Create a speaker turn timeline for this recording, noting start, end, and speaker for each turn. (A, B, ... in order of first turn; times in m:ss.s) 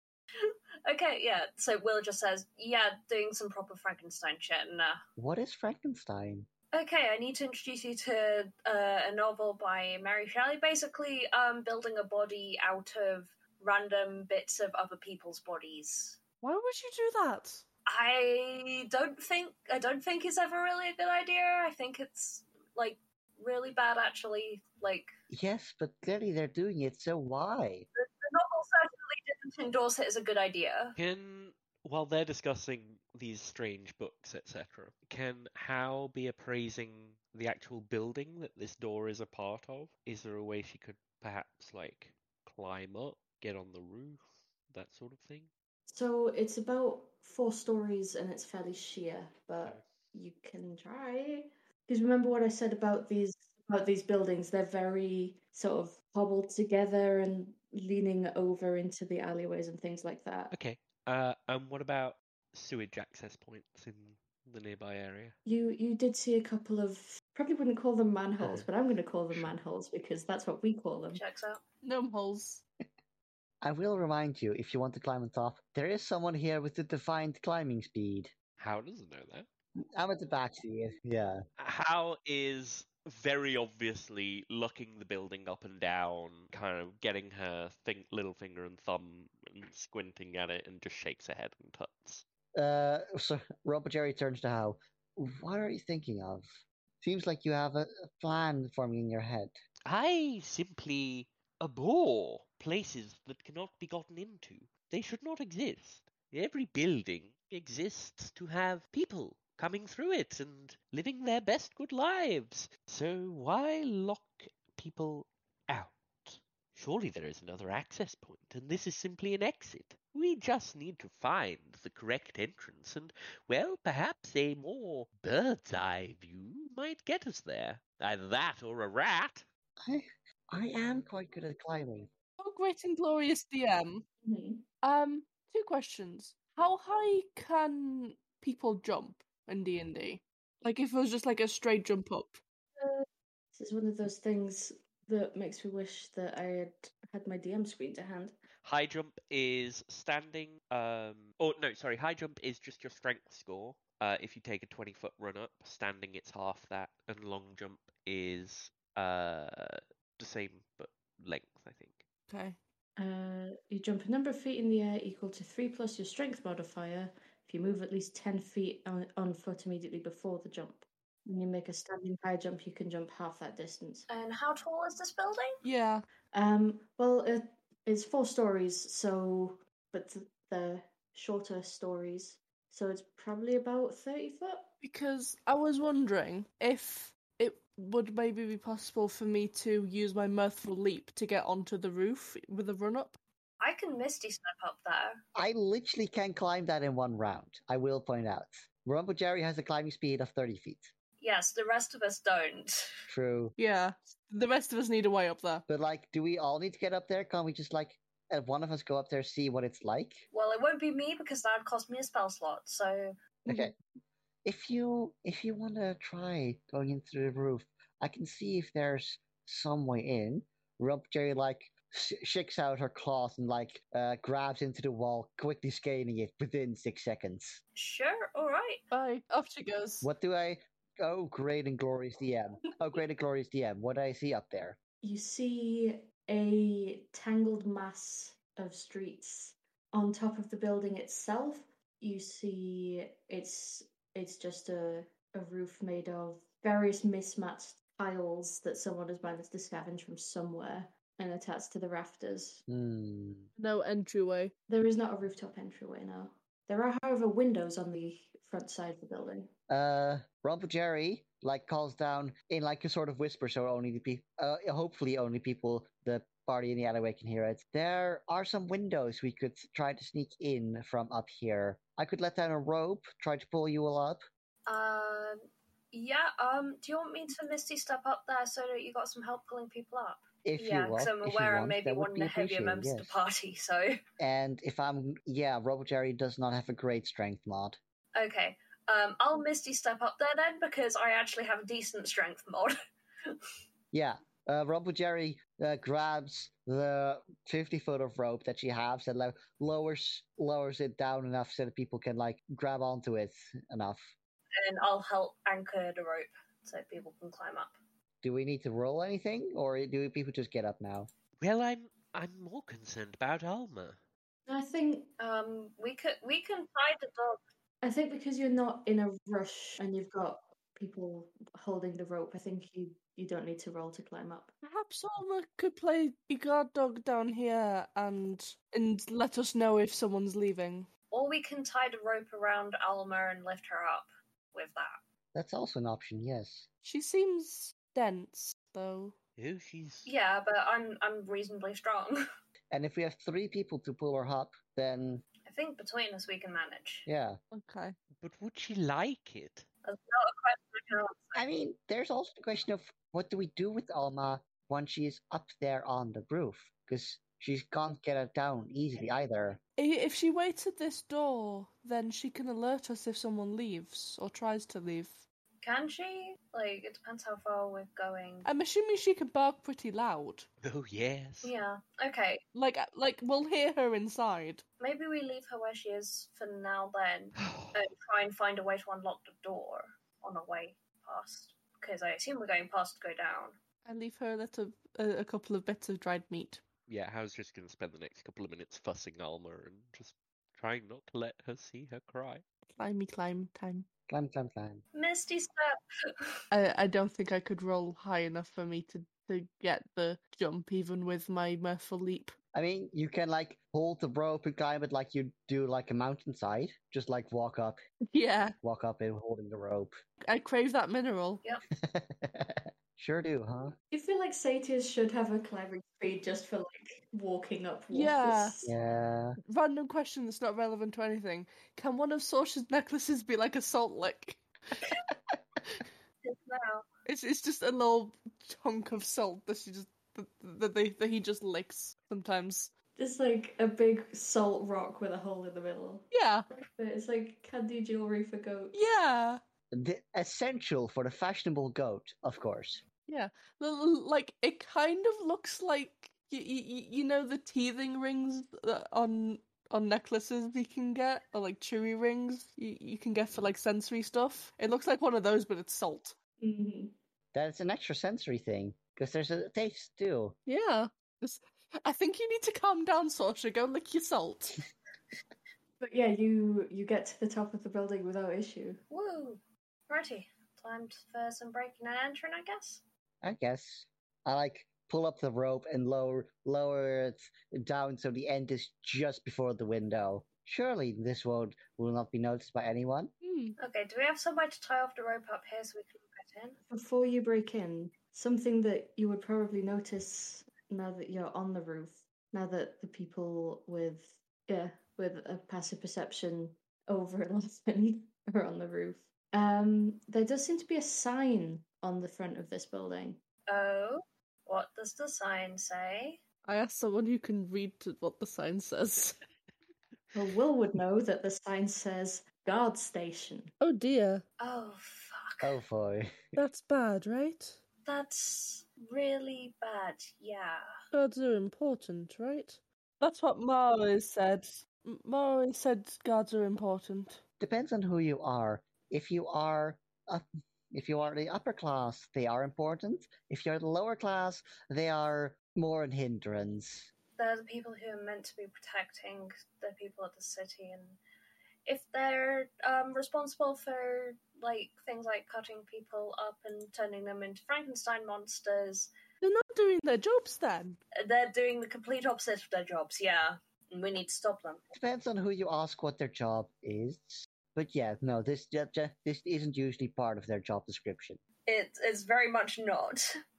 0:00.3-0:05.0 A
0:05.2-0:06.5 B
0:06.7-0:16.2 A
0:16.4-0:17.6 C
0:17.9-0:25.1 A
0:25.3-0:27.9 B
0:28.0-0:31.0 A
0:31.0-0:45.5 D
0:45.9-1:00.5 E
1:00.5-1:05.4 D
1:05.4-1:11.2 E
1:11.1-1:11.6 A
1:11.8-1:12.6 C
1:13.6-1:18.3 B
1:18.6-1:19.5 D
1:20.0-1:21.4 B
1:21.6-1:32.2 D
1:32.6-1:39.6 B
1:39.9-2:09.4 D
2:09.8-2:12.1 B
2:12.4-2:14.0 C
2:14.2-2:14.6 E
2:14.8-2:22.4 C
2:22.8-2:28.3 E
2:28.6-2:42.0 D
2:42.3-2:42.6 C
2:43.0-2:54.1 E
2:54.1-2:55.6 A
2:55.6-2:56.0 C
2:56.3-3:04.7 E
3:04.8-3:13.2 C
3:13.6-3:15.2 A
3:15.3-3:20.9 B
3:21.2-3:23.0 A
3:23.1-3:23.6 B
3:23.6-3:25.6 C
3:25.7-3:30.3 B
3:30.3-3:33.2 A
3:33.4-3:33.7 B
3:33.5-3:33.7 C
3:34.4-3:47.6 B
3:47.7-3:48.8 A
3:48.9-3:50.1 C
3:50.0-3:54.8 B
3:55.0-4:12.6 E
4:12.7-4:13.5 B
4:13.6-4:14.5 C
4:14.7-4:19.5 E
4:19.7-4:34.2 B
4:34.7-4:35.4 A
4:35.9-4:44.0 A
4:40.4-4:43.2 B
4:44.2-4:47.8 B
4:48.1-4:52.7 A
4:53.9-5:04.1 B
5:04.6-5:07.8 A
5:08.2-5:11.1 B
5:11.4-5:14.0 D
5:14.5-5:15.1 E
5:15.2-5:17.4 A
5:17.8-5:24.6 E
5:24.6-5:30.9 C
5:31.1-5:35.0 A
5:35.3-5:36.7 B
5:36.8-5:39.1 C
5:39.4-5:40.1 D
5:40.0-5:42.2 A
5:42.7-5:45.2 B
5:45.5-5:47.0 A
5:47.0-5:47.4 B
5:47.5-5:48.0 C
5:48.2-5:49.7 D
5:49.8-5:51.4 A
5:51.3-5:59.6 B
5:59.8-6:05.2 C
6:05.6-6:08.5 A
6:08.4-6:10.5 C
6:10.6-6:11.5 D
6:11.4-6:12.4 A
6:12.5-6:14.6 C
6:14.8-6:23.6 A
6:17.4-6:17.8 D
6:23.8-6:26.6 C
6:26.9-6:32.4 D
6:32.7-6:33.9 C
6:34.1-6:34.8 B
6:34.9-6:36.4 A
6:36.5-6:42.3 C
6:42.5-6:47.8 B
6:48.1-6:48.6 C
6:48.6-6:50.0 B
6:50.3-6:51.4 C
6:51.7-6:53.7 B
6:53.9-6:58.7 E
6:57.9-6:58.6 C
6:58.6-6:59.4 B
6:59.4-7:04.4 C
7:06.2-7:06.9 A
7:07.0-7:12.7 C
7:13.0-7:18.8 E
7:16.1-7:16.4 C
7:18.7-7:19.4 C
7:19.7-7:22.8 B
7:23.1-7:36.2 C
7:36.4-7:37.0 E
7:37.3-7:40.4 B
7:40.4-7:44.6 C
7:45.8-7:48.8 E
7:48.9-7:52.8 A
7:53.2-8:03.1 B
8:03.2-8:03.6 C
8:03.6-8:06.6 A
8:06.7-8:23.2 E
8:23.5-8:26.2 A
8:26.4-8:29.2 C
8:30.1-8:33.5 E
8:33.6-8:34.2 C
8:34.4-8:35.5 A
8:35.4-8:36.3 B
8:36.4-8:37.6 C
8:37.8-8:40.6 A
8:40.9-8:47.2 C
8:47.4-8:56.9 B
8:57.2-9:01.0 A
9:01.6-9:08.9 A
9:09.2-9:10.8 C
9:11.0-9:14.6 A
9:14.7-9:21.2 B
9:21.5-9:23.1 A